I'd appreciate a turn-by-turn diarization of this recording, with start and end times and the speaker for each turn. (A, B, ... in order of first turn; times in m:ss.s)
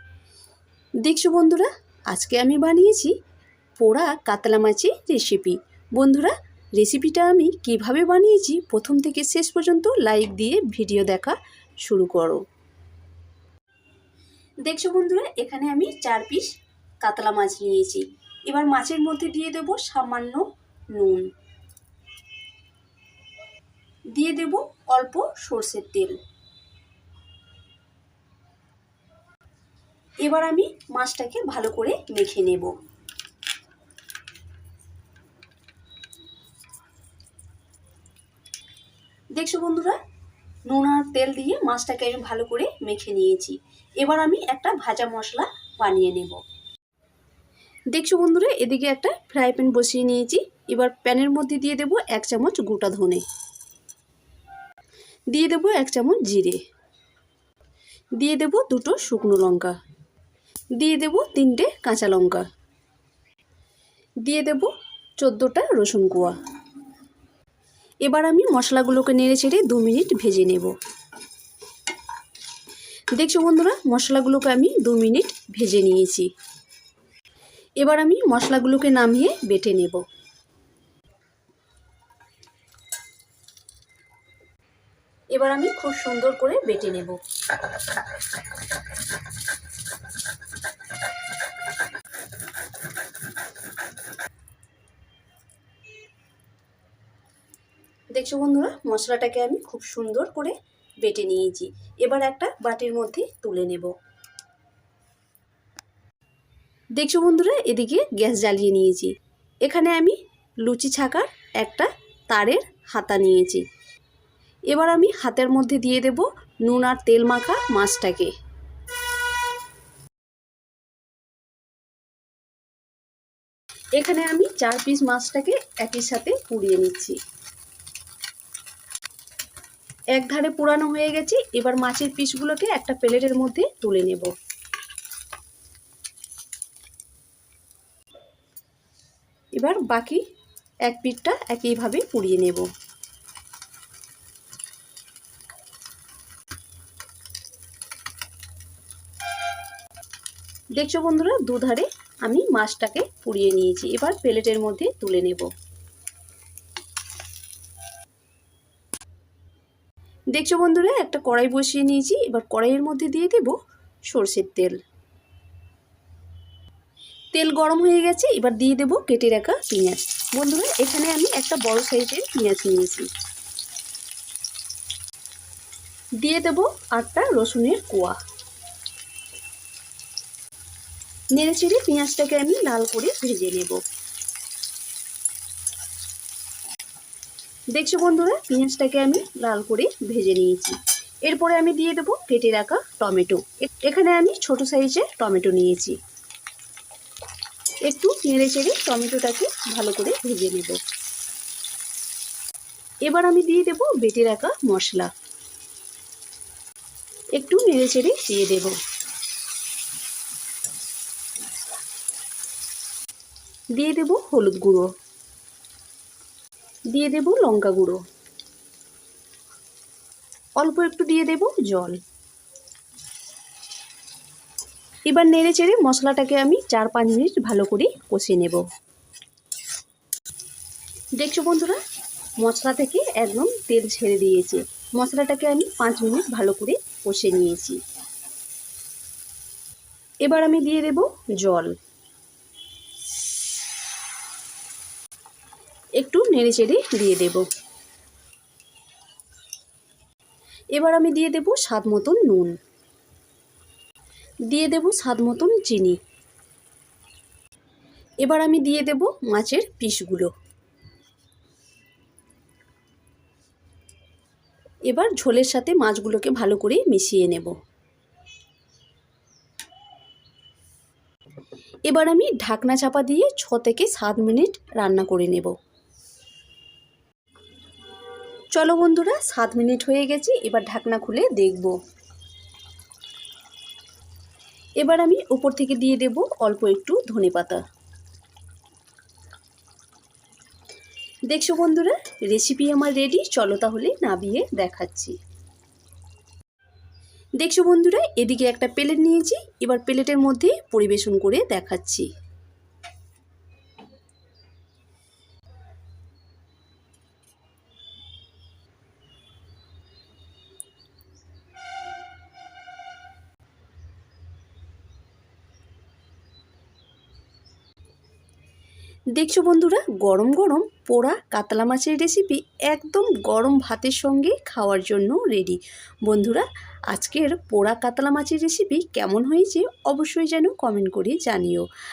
0:01.0-0:03.1 A
0:03.8-0:12.4 A
0:14.6-0:16.5 A
0:17.0-0:21.3 A
0:24.1-0:26.2 A
0:30.2-0:32.8 A
0:39.4-0:40.0 A
0:40.7-0:46.4 A
0:47.9-0:53.2 A
0:55.3-0:56.6 A
0:58.2-0:59.7 A
1:00.8-1:02.4 A
1:04.2-1:06.4 A
1:08.0-1:10.7 A
1:13.2-1:16.3 A
1:17.8-1:20.0 A
1:25.3-1:27.2 A
1:38.1-1:43.9 A
1:47.0-1:49.1 A
1:49.6-1:53.6 A
1:54.7-1:58.3 A
2:04.0-2:07.2 A
2:10.2-2:14.3 A
2:19.6-2:20.2 A
2:20.9-2:22.7 A
2:30.8-2:35.5 A
2:40.3-2:43.6 A
2:44.1-2:44.8 A
2:47.3-2:53.1 A
2:56.2-2:58.2 A
3:01.4-3:03.8 A
3:07.7-3:16.0 A
3:17.9-3:20.8 A
3:23.1-3:25.1 A
3:27.4-3:28.8 A
3:33.8-3:34.9 A
3:36.9-3:38.0 A
3:40.6-3:42.0 A
3:45.1-3:48.6 A
3:51.2-3:51.8 A
3:52.4-3:57.8 A
4:00.2-4:01.7 A
4:06.0-4:07.5 A
4:10.7-4:12.5 A
4:14.5-4:16.0 A
4:18.2-4:20.3 A
4:24.9-4:27.6 A
4:31.9-4:35.5 A
4:38.5-4:41.8 A
4:44.8-4:47.6 A
4:51.3-4:55.2 A
4:57.4-5:02.1 A
5:19.2-5:31.6 A